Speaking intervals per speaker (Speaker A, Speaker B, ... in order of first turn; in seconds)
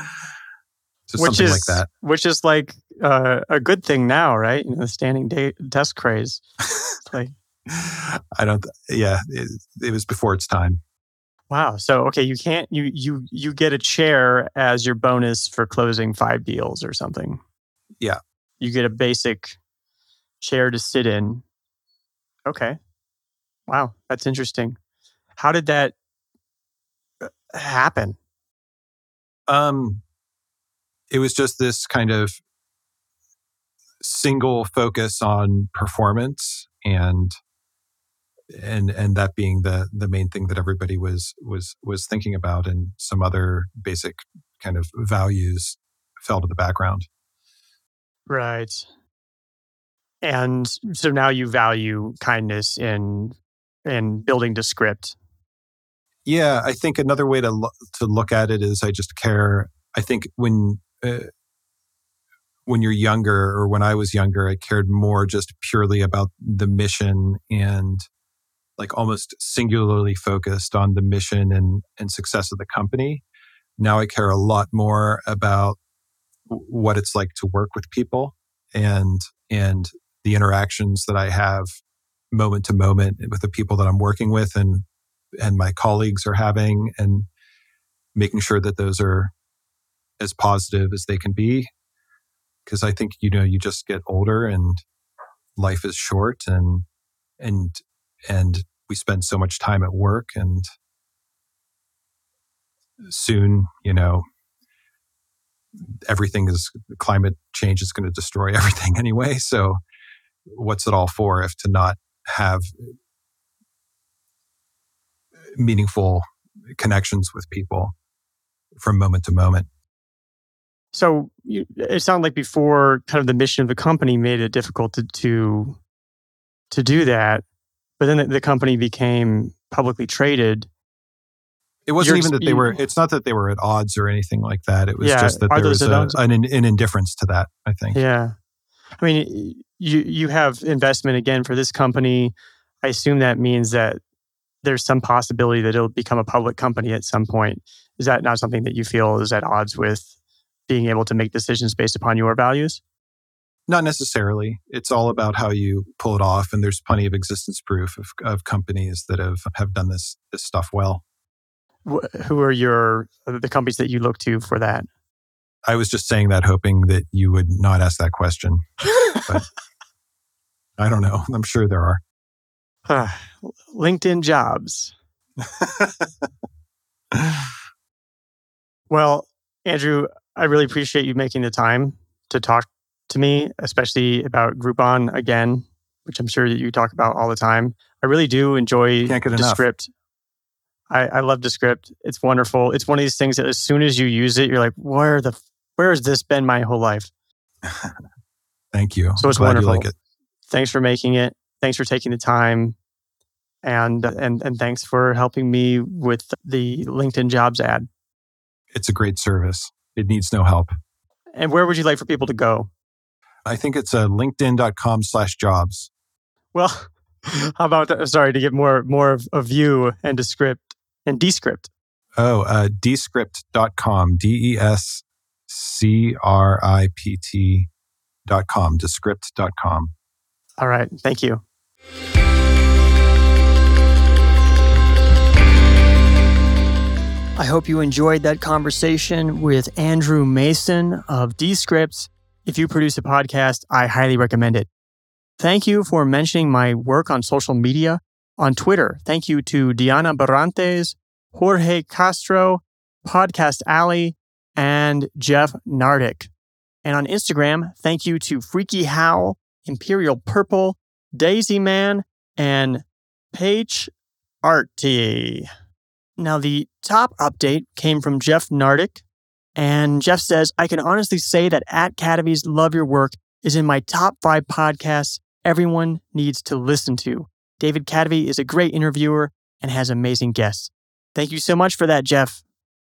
Speaker A: 1.1-1.9, 7.7-10.8, 29.5-30.0, 31.1-32.4, 34.0-37.4, 38.5-47.1, 56.2-61.3, 62.7-68.0, 68.8-73.2, 73.8-75.8, 76.5-81.8, 82.3-84.8, 85.4-87.3, 88.1-89.3, 90.2-91.7, 92.7-94.8, 95.6-96.8, 97.4-100.7, 103.1-104.2, 106.1-109.8, 110.5-112.7, 115.6-117.9, 118.8-119.7, 131.9-138.0, 153.7-161.0, 165.7-168.7, 169.2-169.5, 170.8-172.0, 175.4-176.2, 177.1-177.4, 189.1-189.6, 197.6-197.9, 198.7-199.9, 208.7-210.7, 213.4-215.9, 222.2-227.7, 228.3-229.9
Speaker B: 1.2-6.4, 7.0-7.3, 11.5-17.4, 18.6-19.6, 20.4-21.4, 22.4-22.8, 23.7-24.8, 25.4-25.9, 27.2-28.2, 48.3-48.9, 50.2-55.2, 120.9-125.8, 126.7-127.4, 128.0-130.7, 132.0-132.8, 135.0-136.2, 137.9-138.3, 139.0-144.0, 144.6-150.1, 150.7-152.8, 161.8-164.9, 172.9-174.9, 178.9-189.9, 190.9-197.1, 199.2-199.9, 200.5-202.8, 203.6-207.8, 211.3-212.7, 216.5-221.7, 230.6-231.4, 237.4-244.7, 245.4-256.3, 256.8-263.9, 264.4-265.5, 266.2-269.0, 269.6-282.4